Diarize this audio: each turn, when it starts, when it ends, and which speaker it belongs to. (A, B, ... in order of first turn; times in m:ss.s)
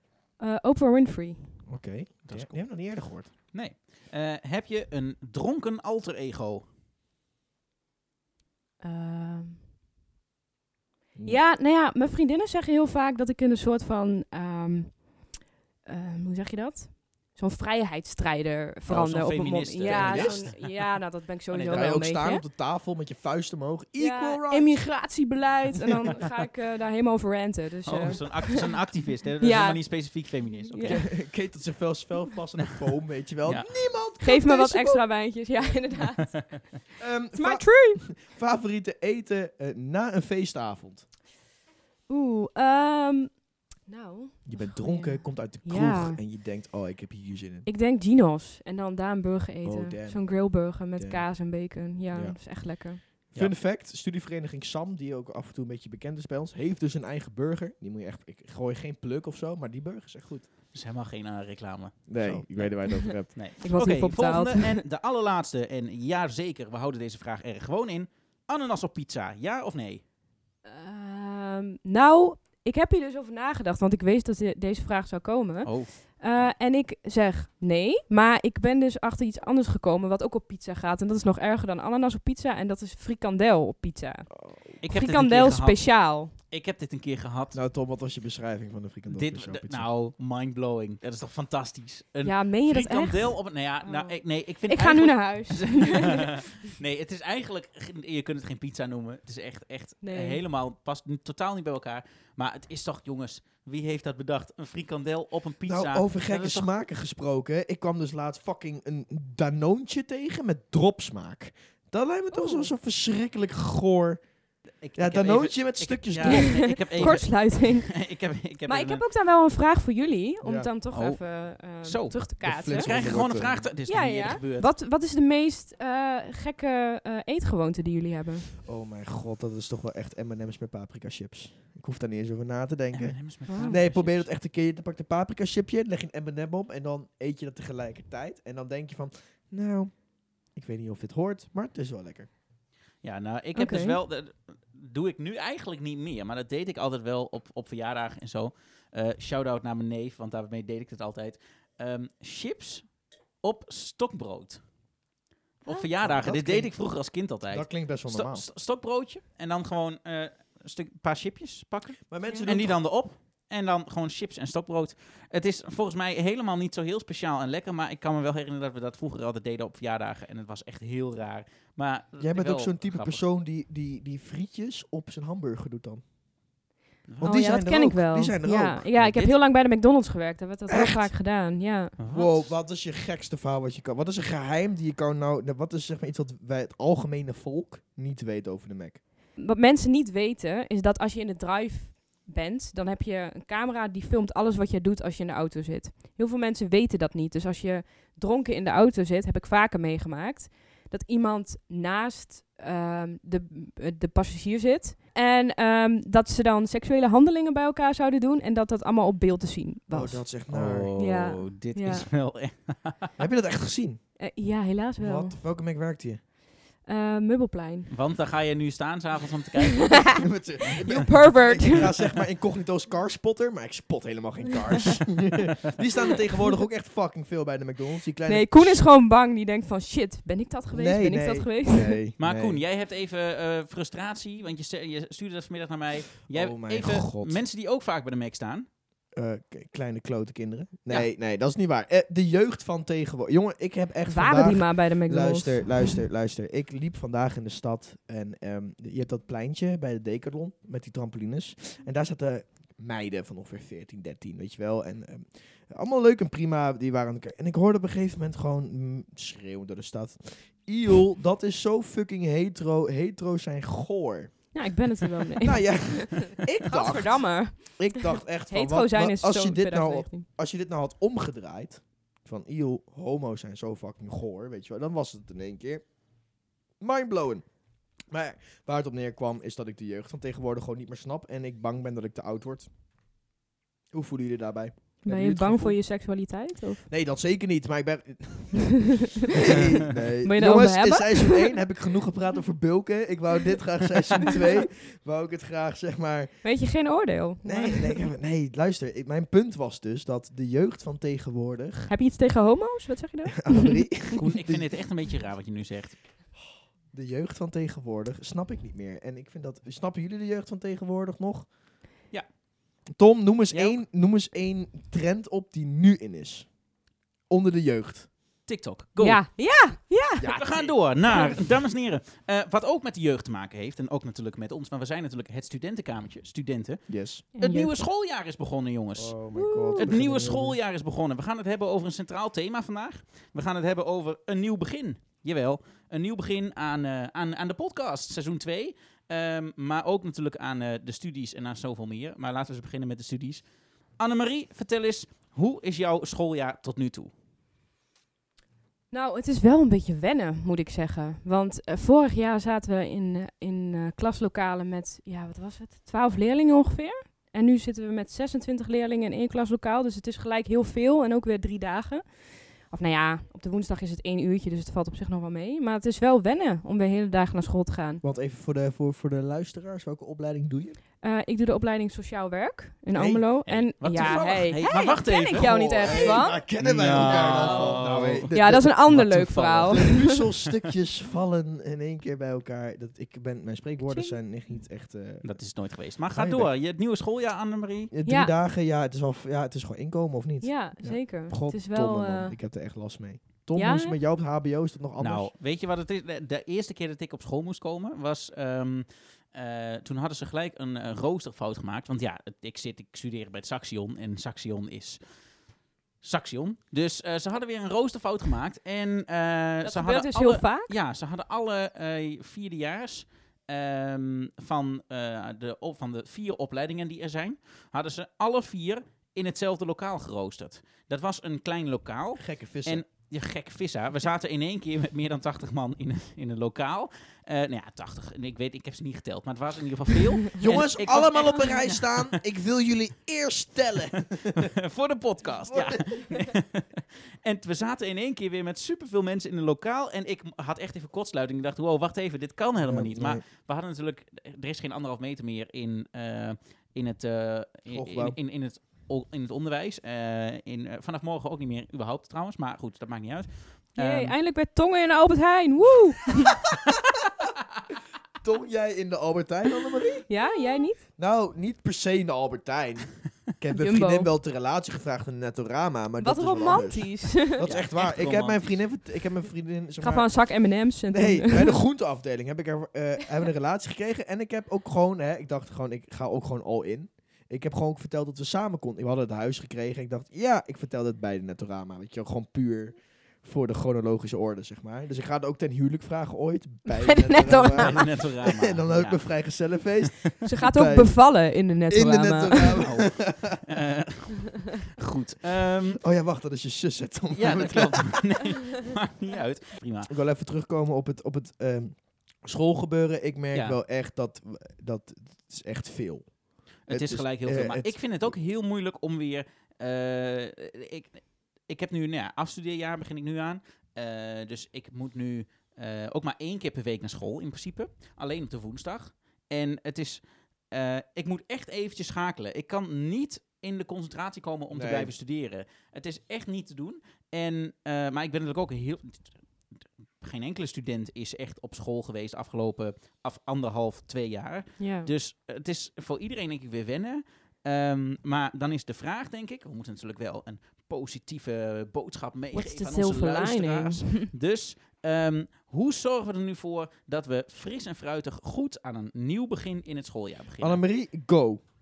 0:00.4-0:01.6 A
0:01.7-0:03.3 B
0:02.2-0:02.8 C
0:03.4-0:06.6 C
0:08.8-0:09.6 A
0:11.2-0:11.4 B
0:11.3-0:15.2 A
0:15.8-0:22.4 A
0:18.9-0:21.9 C
0:19.8-0:20.6 B
0:21.7-0:24.9 B
0:24.0-0:31.1 A
0:25.9-0:26.2 B
0:27.9-0:31.1 C
0:30.9-0:35.8 B
0:33.4-0:33.7 C
0:34.2-0:38.1 A
0:37.0-0:41.1 B
0:42.1-0:46.2 A
0:44.4-0:47.7 B
0:47.7-0:53.0 A
0:49.6-0:51.3 B
0:52.1-0:52.4 B
0:53.0-1:00.5 B
1:00.7-1:10.0 C
1:02.1-1:03.5 B
1:02.8-1:04.8 A
1:10.6-1:26.3 A
1:15.6-1:16.0 C
1:24.8-1:27.6 C
1:27.5-1:29.9 B
1:29.1-1:46.7 C
1:32.2-1:36.5 A
1:40.0-1:40.4 A
1:45.6-1:54.2 B
1:52.3-1:52.7 A
1:54.8-1:59.0 C
1:55.0-1:57.2 B
1:56.2-1:58.0 A
1:58.7-2:03.0 A
2:00.4-2:00.7 B
2:00.9-2:04.7 C
2:02.4-2:03.7 B
2:03.9-2:08.6 A
2:08.6-2:22.3 B
2:12.9-2:14.3 C
2:13.5-2:13.8 A
2:23.0-2:34.6 C
2:23.6-2:24.0 A
2:35.6-2:53.2 C
2:36.0-2:36.8 B
2:37.5-2:38.5 B
2:42.1-2:42.8 B
2:42.3-2:42.5 A
2:52.2-2:56.0 B
2:57.1-2:57.4 C
2:57.2-2:58.9 B
2:57.2-3:02.0 A
2:58.9-2:59.4 C
3:00.7-3:01.1 B
3:02.0-3:02.4 C
3:02.1-3:09.0 B
3:09.4-3:30.3 A
3:29.9-3:30.9 B
3:30.5-3:33.1 C
3:31.0-3:32.1 A
3:33.2-3:34.2 B
3:34.2-3:35.4 A
3:35.0-3:36.2 B
3:36.9-3:37.9 A
3:37.9-3:40.2 C
3:39.8-3:40.2 A
3:40.2-3:48.9 B
3:40.8-3:41.9 A
3:48.3-3:52.0 A
3:50.7-3:52.6 B
3:52.2-3:58.7 C
3:56.3-3:57.4 B
3:59.1-4:36.0 B
4:04.1-4:06.0 A
4:24.5-4:30.2 A
4:36.8-4:42.7 B
4:43.9-4:45.8 B
4:45.0-4:46.9 A
4:46.9-4:56.4 B
4:50.2-4:51.6 A
4:54.2-4:54.6 A
4:56.4-4:58.0 A
4:57.4-5:01.9 B
5:01.9-5:04.2 A
5:03.4-5:04.7 B
5:04.2-5:06.0 C
5:06.9-5:11.5 B
5:12.9-5:16.6 B
5:13.5-5:13.8 C
5:17.3-5:18.1 B
5:18.5-5:19.2 C
5:19.0-5:20.4 A
5:20.2-5:21.4 B
5:20.3-5:29.2 C
5:21.1-5:21.4 A
5:26.9-5:27.2 B
5:27.4-5:27.8 A
5:29.0-5:30.6 B
5:29.3-5:29.9 A
5:29.8-5:43.4 C
5:44.0-5:47.1 C
5:48.9-6:08.0 A
6:08.0-6:10.8 B
6:11.0-6:16.4 A
6:12.9-6:14.6 B
6:13.4-6:20.0 C
6:15.3-6:25.3 B
6:17.0-6:20.2 A
6:23.9-6:24.2 A
6:25.2-6:27.9 C
6:26.1-6:26.5 B
6:27.9-6:35.3 B
6:28.1-6:28.3 A
6:30.4-6:32.4 A
6:33.6-6:34.0 A
6:35.0-6:45.0 C
6:46.0-7:12.1 C
6:49.6-6:50.7 A
7:02.2-7:02.8 B
7:10.4-7:14.5 B
7:14.4-7:34.2 C
7:15.5-7:16.2 B
7:22.6-7:23.2 B
7:27.7-7:28.2 B
7:33.8-7:36.5 A
7:38.2-7:40.1 B
7:40.1-7:40.8 A
7:41.0-8:11.0 B
7:43.6-7:44.1 A
7:46.0-7:47.5 A
7:47.4-7:48.6 C
7:49.8-7:51.6 A
8:06.7-8:07.9 A
8:07.6-8:09.1 C
8:10.2-8:12.7 A
8:11.7-8:13.4 B
8:12.6-8:15.8 C
8:15.8-8:18.1 B
8:17.1-8:19.9 C
8:19.9-8:28.1 B
8:23.3-8:23.6 C
8:26.7-8:49.2 C
8:44.5-8:44.9 B
8:50.0-9:10.6 C
8:54.6-8:54.9 A
9:02.3-9:04.1 A
9:10.4-9:11.4 B